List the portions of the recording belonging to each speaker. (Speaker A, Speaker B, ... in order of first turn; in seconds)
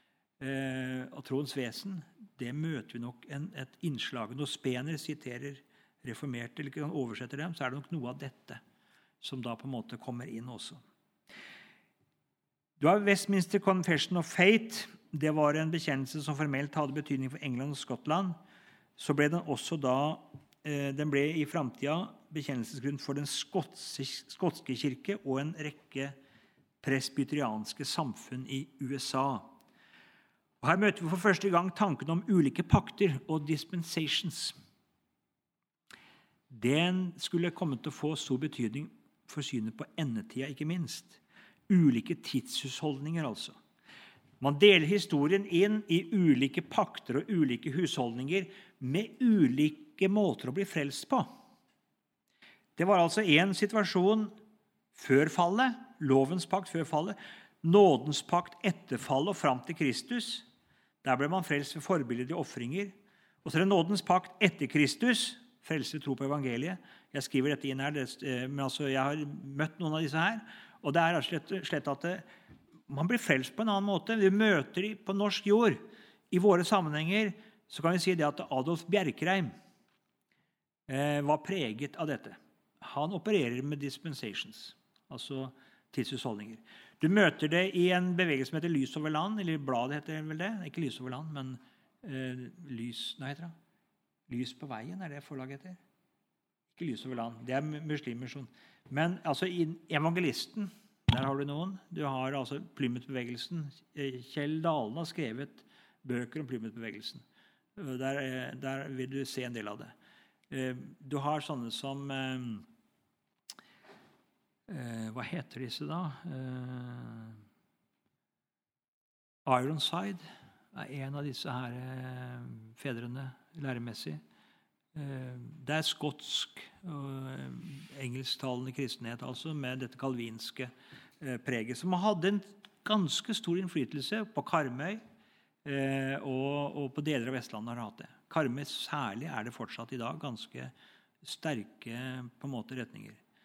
Speaker A: 0.4-8.6, 9.2-10.8, 12.8-18.4, 19.0-26.1, 26.8-29.5, 30.6-34.5, 36.5-43.5, 44.4-51.3, 52.8-54.3, 54.9-60.5, 61.0-72.2, 72.9-79.5, 80.9-93.5, 94.3-95.8, 96.7-107.2, 107.8-109.9, 110.5-112.7, 114.7-117.4, 119.5-124.2, 124.9-135.0, 135.6-143.2